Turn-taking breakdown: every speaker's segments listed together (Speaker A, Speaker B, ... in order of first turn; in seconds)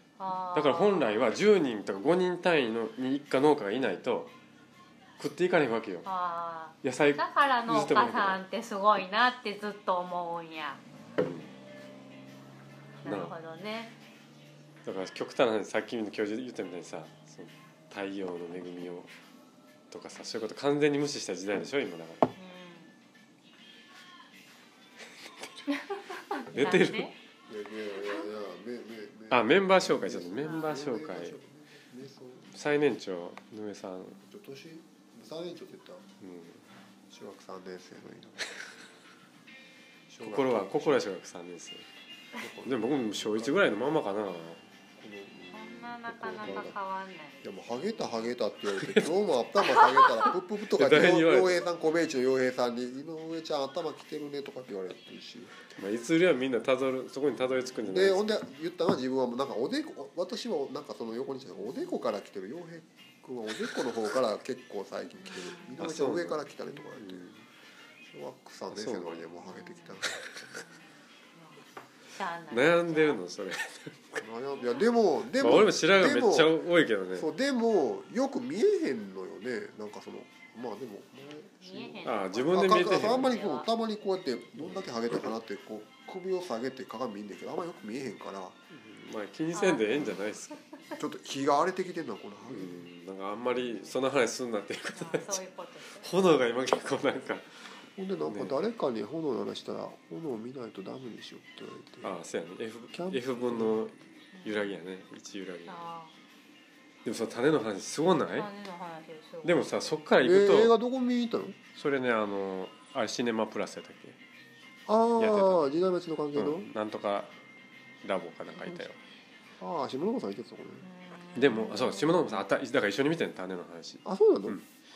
Speaker A: 0.2-1.3, 6.0-10.8, 13.0-14.0, 22.4-22.9, 25.7-27.1, 45.5-47.5, 61.6-61.9, 65.2-65.8, 69.5-70.0, 71.3-73.2, 81.6-83.7, 89.5-91.0, 95.0-96.4, 104.3-104.7, 105.7-106.1, 108.0-110.0, 120.8-122.4
Speaker B: 0.5-4.3, 5.2-6.0, 6.8-8.4, 11.2-11.5, 13.0-13.3, 14.8-19.1, 19.9-22.3, 25.4-25.6, 26.5-27.1, 29.3-31.4, 32.5-34.2, 36.2-36.6, 40.2-41.9, 42.6-44.6, 48.7-49.1, 50.6-51.6, 55.8-58.4, 65.8-66.4, 67.0-67.4, 68.7-69.2, 72.5-74.2, 75.4-77.3, 82.0-83.3, 84.6-85.3, 88.7-90.6, 92.5-95.4, 96.0-97.6, 98.2-98.6, 102.0-105.9, 107.0-108.5, 109.4-110.7, 111.7-114.2, 115.2-115.6, 116.3-117.3, 118.0-119.0, 121.3-124.6
Speaker C: 27.5-32.5, 34.2-36.1, 37.1-38.5, 40.1-41.1, 42.4-43.7, 45.0-46.8, 47.4-55.5, 57.9-67.3, 68.0-70.6, 74.2-76.5, 77.1-88.6, 91.0-92.9, 98.0-102.2, 102.9-103.9, 110.2-111.6, 114.9-116.7, 118.5-118.8, 119.6-120.8, 124.0-124.6